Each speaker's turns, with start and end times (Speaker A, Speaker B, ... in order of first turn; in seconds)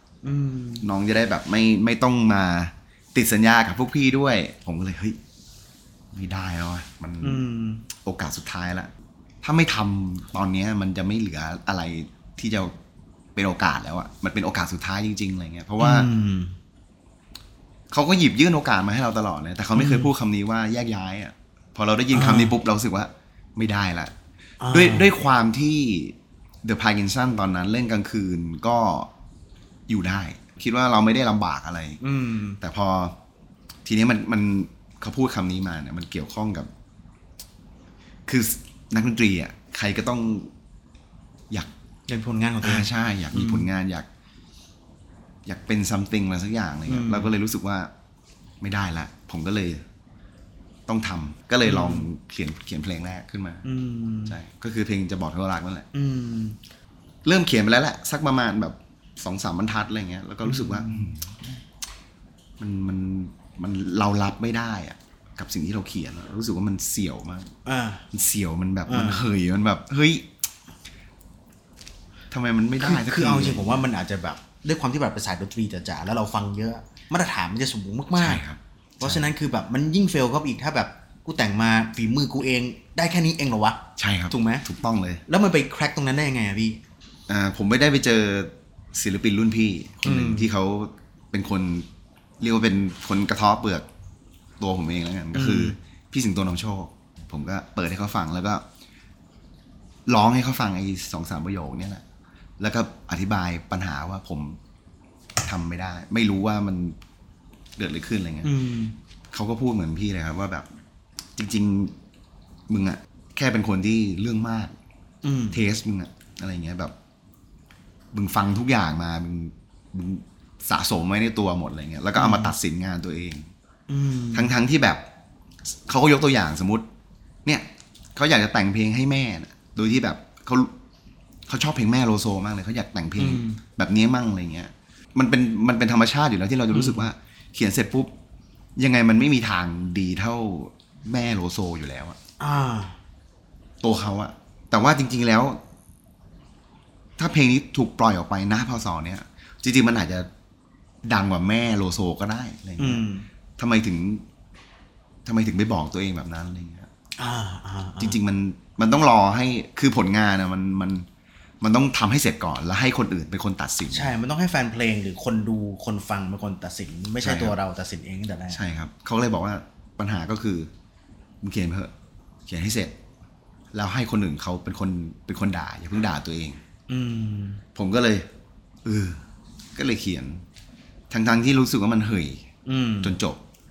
Speaker A: 0.2-0.9, 7.2-7.8, 15.8-16.6, 19.7-20.1, 22.1-22.5, 24.6-25.1, 32.0-32.6, 42.1-43.7, 46.9-47.3, 51.6-52.1, 53.6-54.4, 55.9-56.6, 60.4-61.1, 67.6-68.0, 68.9-69.3, 72.8-78.4, 79.0-84.6, 85.3-86.8, 90.0-90.5, 95.3-95.7, 108.4-109.0, 115.2-115.6, 122.2-122.5, 123.9-124.5, 133.2-133.6, 136.7-137.1, 142.4-143.0, 152.8-153.2, 157.2-158.2, 163.9-168.6, 176.9-177.6, 182.6-183.2
Speaker B: 0.8-5.2, 6.1-7.4, 7.9-8.9, 9.4-12.7, 13.3-16.1, 17.9-24.1, 24.7-29.1, 29.9-32.0, 32.6-33.1, 33.8-36.7, 38.2-40.5, 42.6-44.1, 45.5-47.9, 48.6-49.8, 50.9-53.6, 54.3-55.9, 57.2-61.3, 62.6-67.5, 68.1-70.3, 72.3-73.8, 78.2-79.3, 84.0-85.2, 87.3-91.9, 92.4-93.8, 94.6-98.6, 100.1-102.0, 102.6-104.6, 105.4-107.0, 107.8-108.5, 109.3-110.7, 111.3-111.9, 112.7-114.7, 115.5-116.9, 118.1-123.5, 124.3-125.0, 125.7-126.8, 127.4-130.7, 131.5-138.1, 138.8-142.2, 143.8-145.6, 147.2-150.3, 151.0-153.0, 153.6-154.2, 155.2-156.9, 158.0-161.1, 161.6-164.1, 167.2-167.6, 168.5-170.7, 171.4-171.9, 172.5-172.9, 173.7-176.6, 177.7-178.3, 178.8-179.2, 179.8-180.4, 181.1-182.5, 183.0-183.4